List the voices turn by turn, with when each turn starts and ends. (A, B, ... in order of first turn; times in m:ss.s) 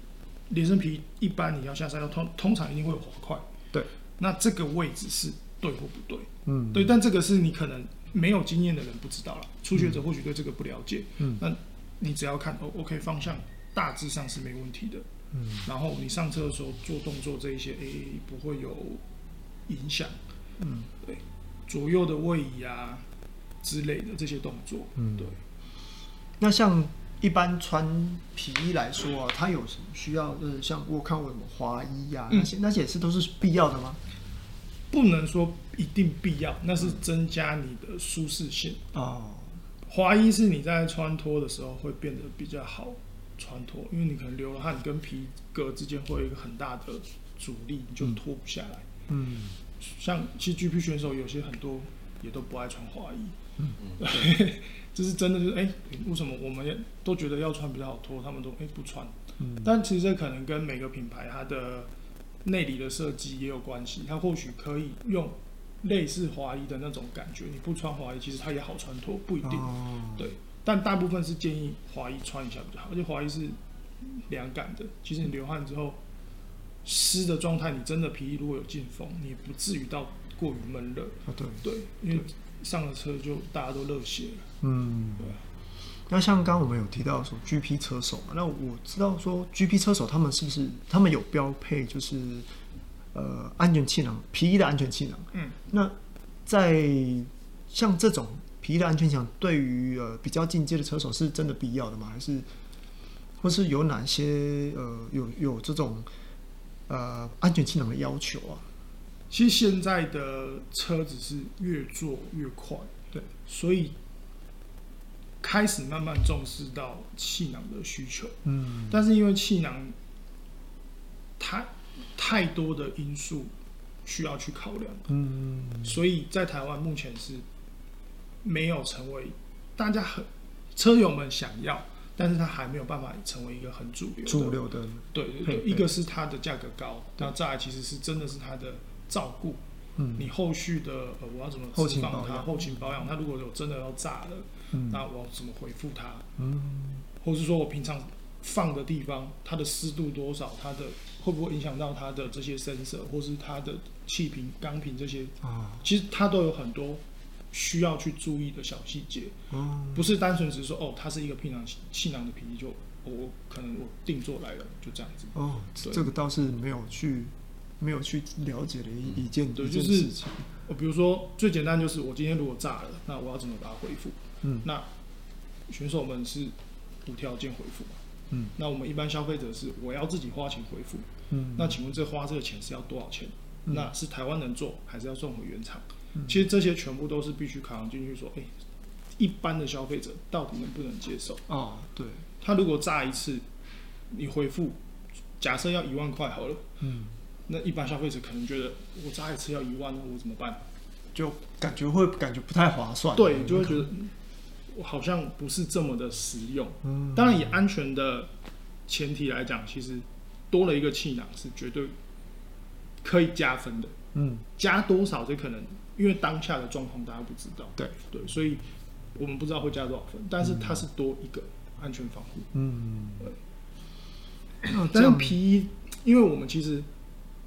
0:00.5-0:03.4 A
0:04.2-0:15.0 A
0:06.4-0:06.9 B
0:15.3-0:15.6 B
0:15.6-0:19.0 A
0:19.7-0:20.2 A
0:20.6-0:20.9 B
0:21.0-0:23.0 A
0:23.6-0:25.4 A
0:25.0-0:25.3 B
0:26.4-0:34.0 B
0:34.9-0:38.8 A
0:38.9-0:39.6 B
0:39.9-0:48.8 A
0:49.1-0:49.6 B
0:49.8-0:53.3 A
0:53.6-0:54.3 B
0:54.0-1:01.9 A
0:59.4-0:59.7 B
1:02.4-1:16.0 A
1:09.4-1:10.3 B
1:16.8-1:24.5 A
1:21.3-1:21.6 B
1:24.6-1:25.4 B
1:26.1-1:32.5 B
1:33.1-1:35.9 B
1:36.4-1:42.5 B
1:43.4-1:46.1 B
1:46.9-1:48.6 B
1:49.3-1:52.9 A
1:53.4-1:53.9 A
1:55.4-1:58.4 A
1:58.4-1:59.0 B
1:58.9-1:59.9 A
2:01.4-2:03.5 A
2:04.0-2:05.1 A
2:05.1-2:06.0 B
2:05.8-2:07.4 A
2:08.4-2:14.6 A
2:14.2-2:15.9 B
2:15.1-2:19.6 A
2:20.0-2:20.3 B
2:20.2-2:26.2 A
2:21.7-2:22.7 B
2:24.7-2:25.0 B
2:26.4-2:27.0 B
2:27.2-2:39.3 A
2:35.4-2:35.8 B
2:39.5-2:40.1 B
2:39.9-2:46.1 A
2:45.3-2:50.5 B
2:49.6-2:50.1 A
2:50.6-2:54.9 A
2:55.7-2:58.0 A
2:58.5-3:08.5 A
3:01.3-3:01.8 B
3:06.2-3:06.4 B
3:09.2-3:11.4 A
3:11.5-3:12.2 B
3:12.4-3:13.4 A
3:14.1-3:14.8 A
3:15.4-3:16.6 A
3:16.8-3:17.1 B
3:17.5-3:20.6 A
3:21.1-3:23.9 B
3:23.1-3:24.1 A
3:24.7-3:28.3 A
3:26.8-3:27.5 B
3:28.9-3:31.9 A
3:33.0-3:33.9 A
3:34.1-3:34.4 B
3:34.5-3:38.6 A
3:39.1-3:42.5 A
3:40.4-3:40.8 B
3:42.5-3:43.3 B
3:44.6-3:45.4 B
3:44.9-3:46.9 A